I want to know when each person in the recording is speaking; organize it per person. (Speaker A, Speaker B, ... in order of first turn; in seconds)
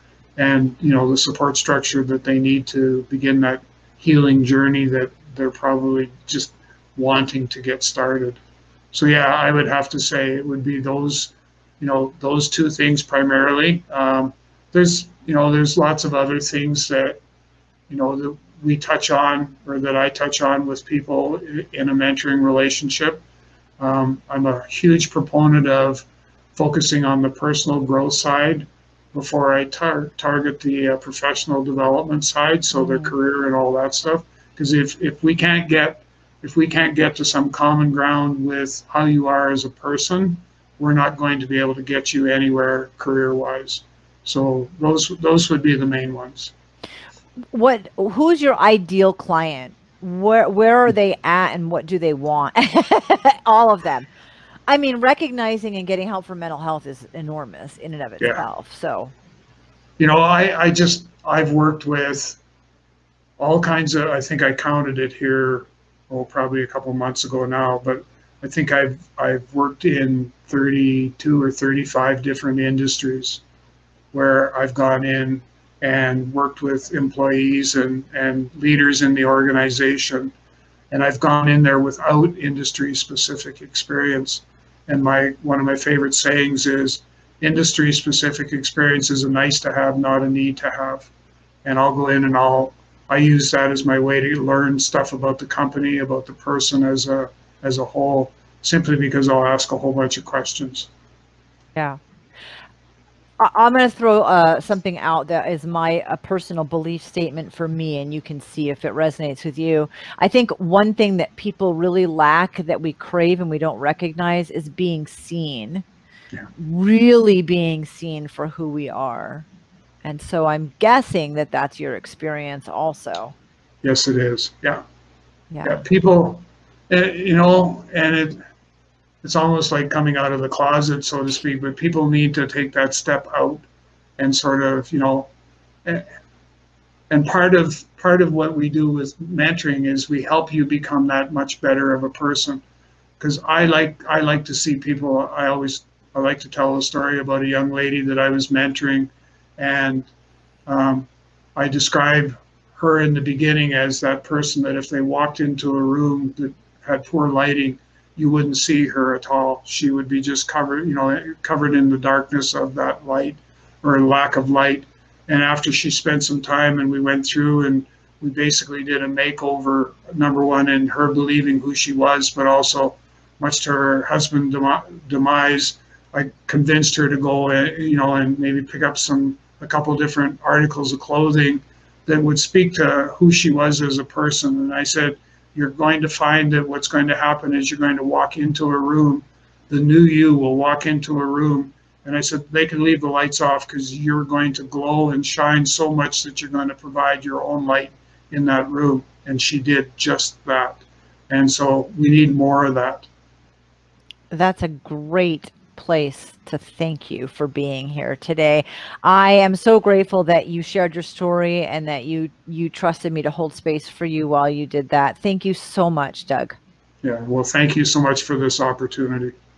Speaker A: 0.4-8.4, 8.9-17.2, 17.9-23.2, 23.8-46.5, 60.0-62.4, 63.4-73.4, 74.1-80.3, 80.9-91.1, 91.6-100.9, 123.8-124.8, 125.6-128.4, 129.2-133.7, 134.2-135.3, 137.1-142.6, 143.2-150.1, 150.7-203.1, 217.0-219.3
Speaker B: 32.8-33.1, 47.5-54.1, 54.7-59.1, 103.4-115.8, 116.6-119.5, 120.0-123.3, 125.5-125.8, 204.3-216.6